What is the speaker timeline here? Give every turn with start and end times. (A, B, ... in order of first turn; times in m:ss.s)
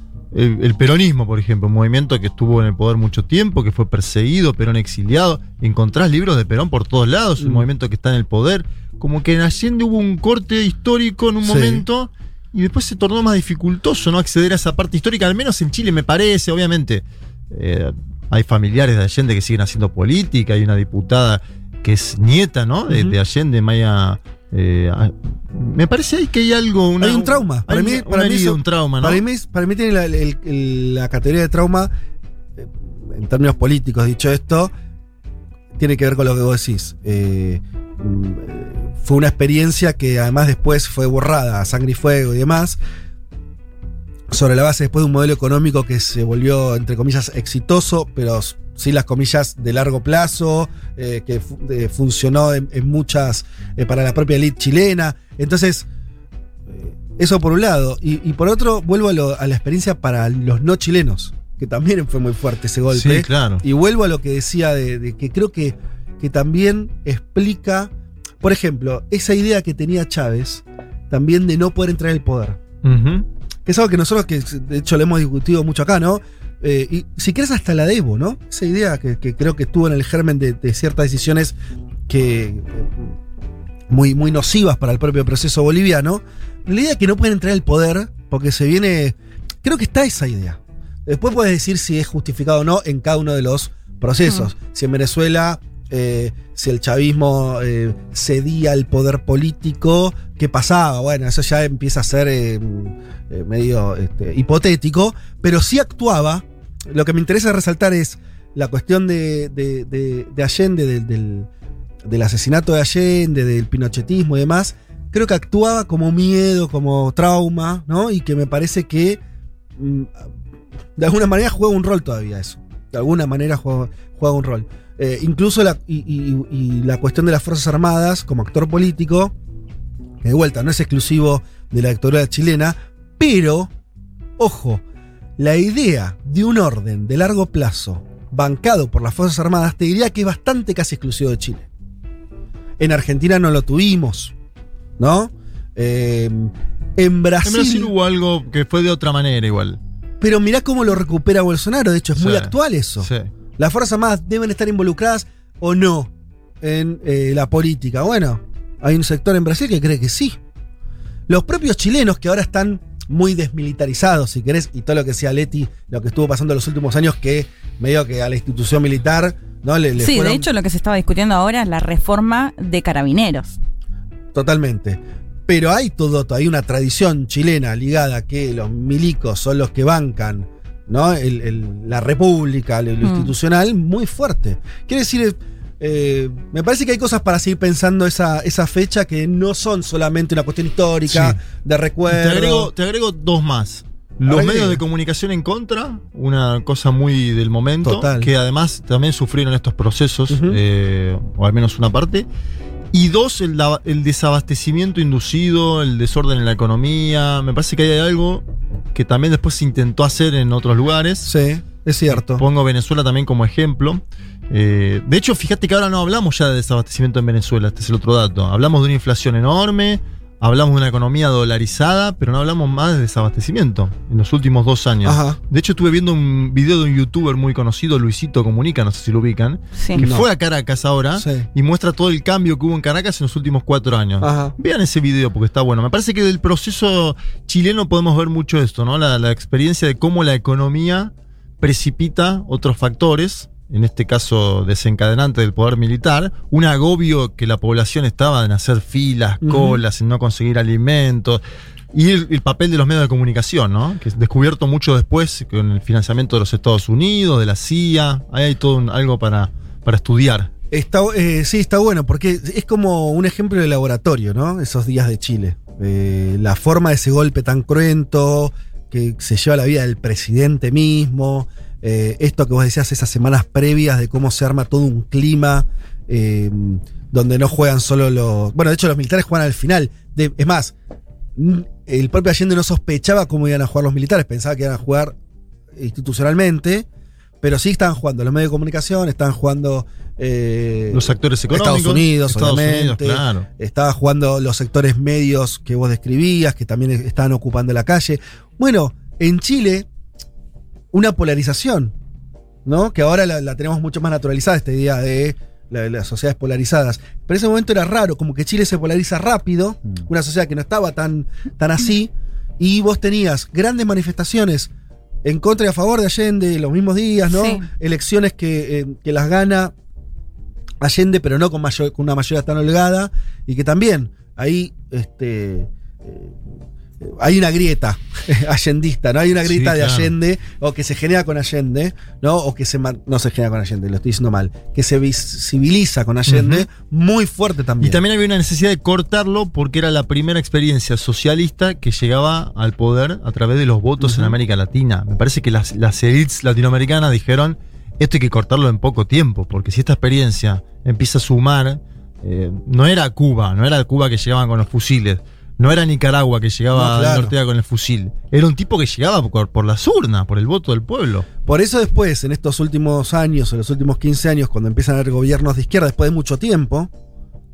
0:00.3-0:29.2 A
0:07.4-0:07.7 B
0:11.4-0:11.9 B
0:22.9-0:23.2 B
0:27.0-0:31.9 B
0:32.6-0:34.7 B
0:35.8-0:42.8 B
0:44.3-0:55.9 B
0:56.7-1:12.6 B
1:02.9-1:03.6 A
1:12.8-1:13.2 A
1:13.7-1:21.6 B
1:22.1-1:23.1 B
1:23.9-1:51.5 B
1:52.1-1:59.2 B
1:59.8-2:00.2 B
2:01.0-2:09.3 B
2:10.2-2:13.7 B
2:14.4-2:14.8 B
2:15.4-2:21.7 B
2:22.8-2:24.3 B
2:25.0-2:27.9 B
2:27.4-2:29.8 A
2:30.2-2:40.4 B
2:32.2-2:33.3 A
2:41.3-2:50.5 B
2:50.0-2:53.6 C
2:54.3-3:12.7 B
3:03.0-3:03.3 C
3:11.1-3:11.4 A
3:12.1-3:22.2 A
3:14.2-3:14.8 B
3:17.8-3:18.3 B
3:20.3-3:20.6 B
3:22.9-3:31.3 A
3:31.2-3:32.4 B
3:32.1-4:11.4 A
3:45.0-3:45.4 B
3:49.8-3:50.0 C
3:50.0-3:50.3 B
3:51.2-3:51.5 B
3:54.2-3:54.5 B
4:09.4-4:09.8 B
4:11.9-4:20.5 A
4:20.7-4:40.8 B
4:41.4-4:45.2 B
4:45.7-4:46.9 B
4:47.4-4:59.9 B
4:50.9-4:53.5 A
5:00.9-5:02.0 B
5:02.6-5:14.7 B
5:15.2-5:19.7 B
5:17.3-5:17.7 C
5:20.8-5:26.4 B
5:27.0-5:38.0 B
5:29.4-5:30.1 A
5:36.3-5:36.7 A
5:37.8-6:01.3 A
5:44.0-5:44.4 B
5:56.7-5:57.3 B
6:01.4-6:06.9 B